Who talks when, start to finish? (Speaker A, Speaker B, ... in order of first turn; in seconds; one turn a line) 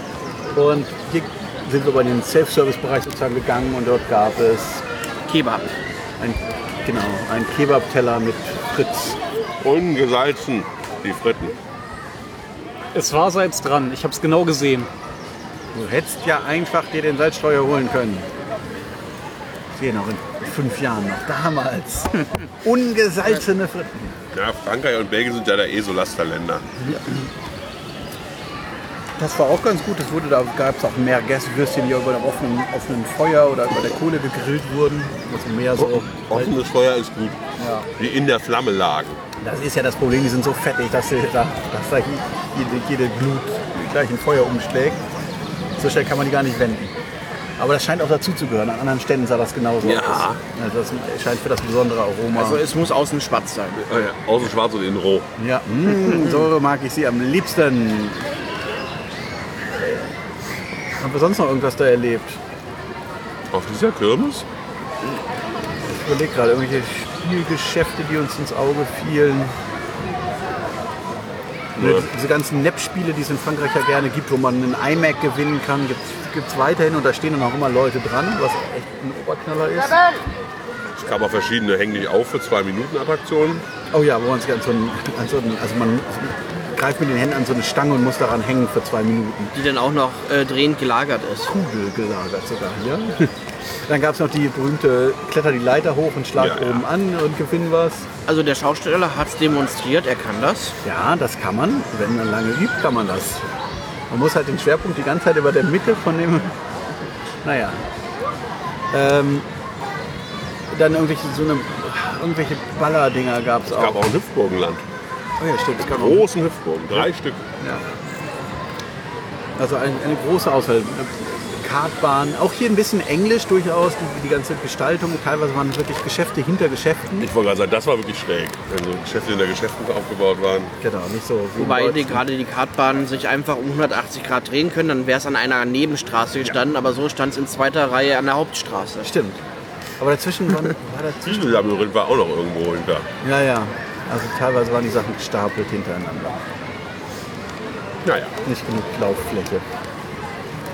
Speaker A: 0.5-4.8
Speaker B: 5.3-5.7
Speaker A: 6.2-9.2
Speaker C: 9.6-11.6
Speaker D: 12.9-14.9
Speaker A: 15.7-18.3
Speaker A: 19.7-24.2
Speaker C: 24.3-26.7
Speaker A: 26.8-27.2
Speaker A: 29.2-36.5
Speaker C: 35.8-37.4
Speaker A: 37.6-37.9
Speaker C: 38.0-39.2
Speaker A: 39.4-45.0
Speaker A: 45.8-46.9
Speaker A: 47.6-52.7
Speaker C: 49.8-50.4
Speaker B: 52.3-53.8
Speaker C: 53.8-55.3
Speaker A: 55.4-58.3
Speaker B: 55.9-56.5
Speaker A: 59.7-60.1
Speaker A: 61.0-62.4
Speaker C: 63.5-64.4
Speaker A: 66.0-69.5
Speaker C: 71.8-72.0
Speaker A: 71.8-80.0
Speaker C: 81.0-83.6
Speaker A: 83.9-89.5
Speaker B: 89.5-91.5
Speaker A: 91.5-98.1
Speaker C: 96.3-96.8
Speaker B: 98.2-100.8
Speaker A: 100.8-103.5
Speaker A: 104.1-106.5
Speaker A: 107.4-107.8
Speaker A: 108.9-109.5
Speaker A: 110.7-114.0
Speaker C: 113.7-114.8
Speaker A: 115.4-116.3
Speaker C: 115.8-117.4
Speaker A: 117.6-117.8
Speaker A: 119.6-127.3
Speaker C: 127.2-130.7
Speaker A: 130.8-132.2
Speaker B: 131.6-139.1
Speaker A: 139.0-139.4
Speaker A: 140.0-141.6
Speaker C: 141.2-143.1
Speaker A: 143.2-146.4
Speaker C: 148.0-148.3
Speaker A: 148.4-149.6